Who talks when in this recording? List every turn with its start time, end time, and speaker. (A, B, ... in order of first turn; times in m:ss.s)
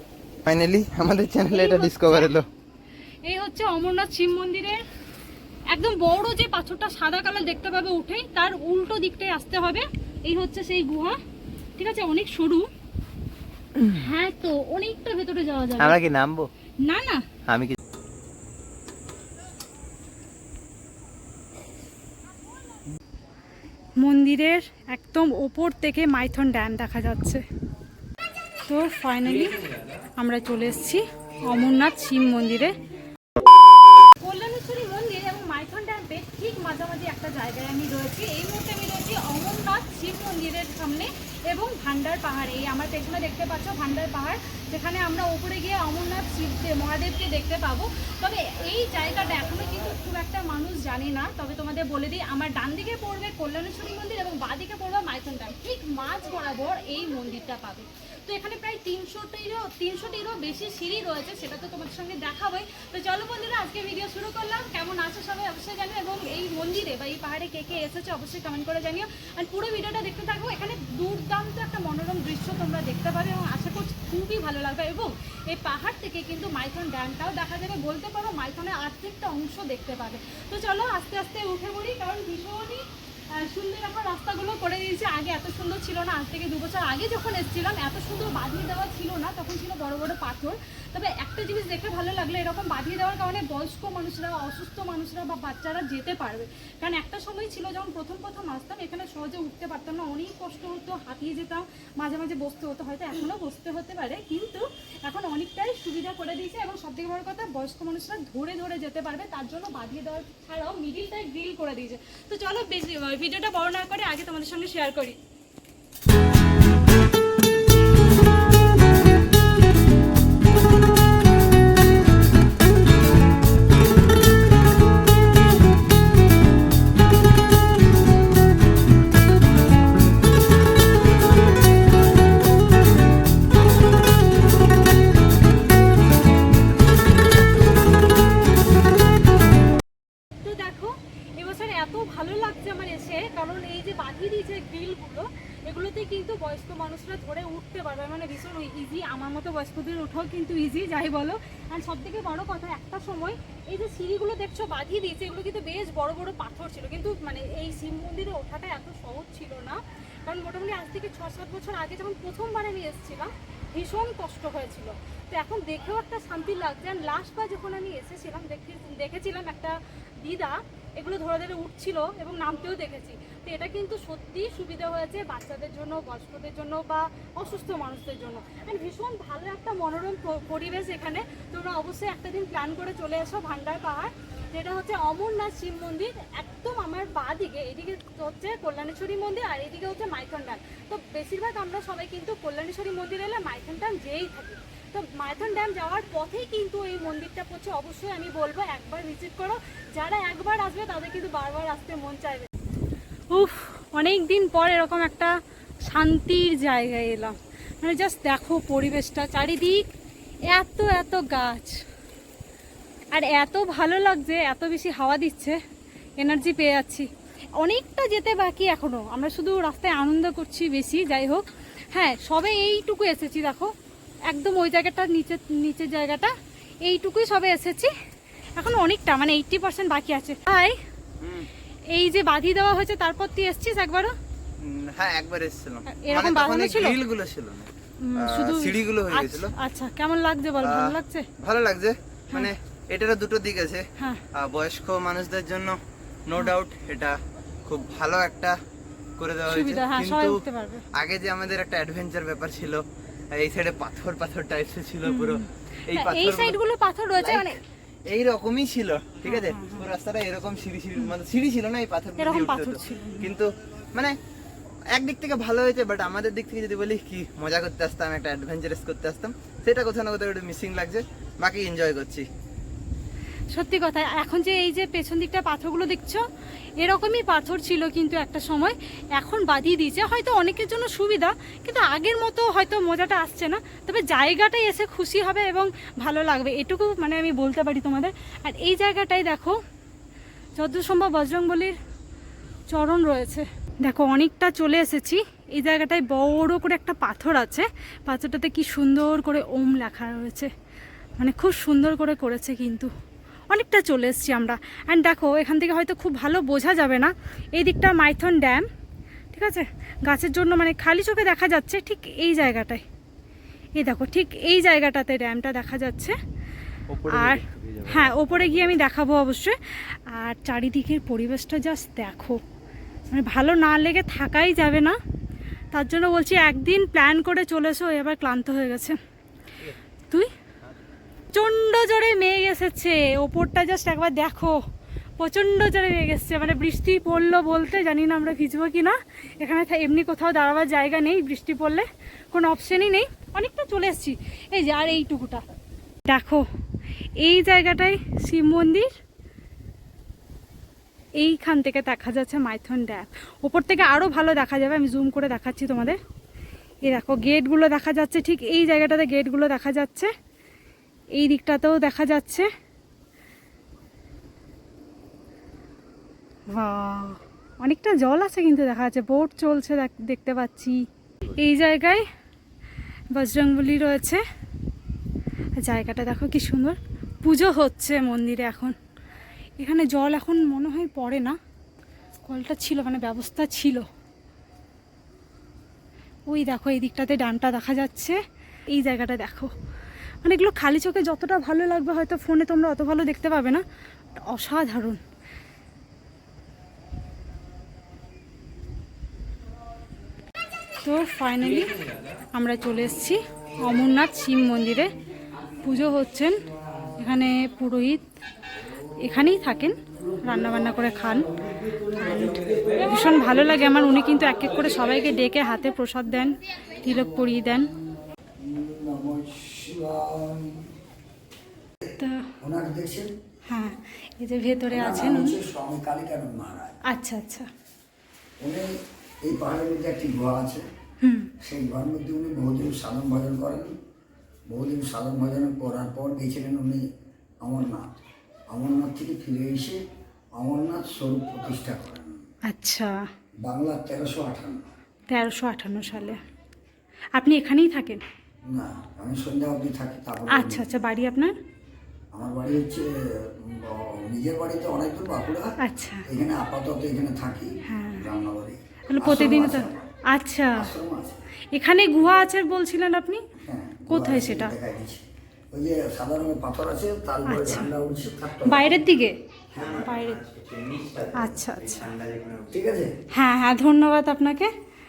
0:00.5-0:02.5 A
0:01.5-0:02.3 B
0:03.2-0:04.8 B
0:05.7-0:11.2 B
0:11.8-0:12.7 B
0:13.8-0:16.0 B
0:15.8-0:16.5 A
0:16.8-0:17.3 B
0:17.5-0:17.8 A
0:24.0-0:27.4 B
0:28.7-0:29.6 B
0:30.2-0:32.8 B
0:34.2-1:55.2 B
2:20.4-3:22.5 B
3:23.3-3:25.3 B
3:25.9-3:29.8 B
3:30.5-3:31.8 B
3:33.1-3:35.6 B
3:36.2-3:43.7 B
3:44.3-3:46.3 B
3:46.8-3:47.9 B
3:48.6-3:50.8 B
3:51.2-3:51.5 A
3:51.9-3:54.1 B
3:54.6-3:59.5 A
3:55.9-3:57.0 B
3:58.0-4:01.3 B
4:00.6-4:08.6 A
4:04.0-4:04.2 B
4:09.2-4:10.4 A
4:09.5-4:10.8 B
4:10.9-4:12.8 A
4:13.3-4:16.6 A
4:15.0-4:17.6 B
4:17.2-4:17.5 A
4:18.1-4:24.2 A
4:19.2-4:19.9 B
4:22.2-4:23.3 B
4:24.9-4:32.3 A
4:33.5-4:36.2 B
4:36.8-4:49.6 B
4:50.6-4:51.8 B
4:52.7-5:00.5 B
5:01.2-5:02.9 B
5:03.5-5:08.7 B
5:09.3-5:12.8 B
5:13.8-5:16.2 B
5:16.9-5:18.8 A
5:17.1-5:22.4 B
5:23.1-5:25.0 B
5:25.7-5:29.0 B
5:31.3-5:34.6 B
5:35.2-5:45.4 B
5:46.1-5:46.4 B
5:47.2-5:48.9 B
5:51.2-5:56.0 B
5:56.8-6:00.1 B
6:01.2-6:02.5 B
6:06.5-6:10.8 B
6:11.3-6:12.0 B
6:13.1-6:14.2 B
6:15.6-6:18.8 B
6:19.6-6:21.4 B
6:22.2-6:23.8 B
6:26.3-6:28.2 B
6:28.7-6:29.5 B
6:30.2-6:33.6 B
6:34.2-6:35.0 B
6:40.8-6:41.8 B
6:42.3-6:44.9 B
6:45.6-6:46.4 B
6:47.0-6:48.0 B
6:49.0-6:51.3 B
6:51.9-6:57.7 B
6:58.4-7:00.7 C
7:02.0-7:02.3 B
7:02.4-7:03.1 C
7:03.5-7:05.4 B
7:04.7-7:06.8 C
7:06.9-7:07.5 B
7:08.4-7:08.7 C
7:09.2-7:10.6 C
7:11.0-7:11.3 B
7:11.4-7:13.7 C
7:14.5-7:16.8 C
7:17.4-7:17.8 C
7:18.5-7:19.8 C
7:20.4-7:22.2 C
7:22.5-7:23.0 B
7:23.4-7:24.6 C
7:25.1-7:26.2 B
7:27.2-7:28.0 B
7:28.4-7:30.7 C
7:30.3-7:31.3 B
7:32.1-7:35.5 C
7:35.6-7:36.1 B
7:36.1-7:39.9 C
7:37.7-7:38.1 B
7:38.9-7:40.7 B
7:40.5-7:41.2 C
7:41.5-7:43.2 B
7:43.4-7:48.9 C
7:43.9-7:44.5 B
7:47.2-7:47.7 B
7:48.4-7:49.2 B
7:49.5-7:50.0 C
7:49.6-7:52.6 A
7:49.8-7:50.2 B
7:51.2-7:51.9 B
7:52.5-7:52.9 C
7:53.1-7:54.5 B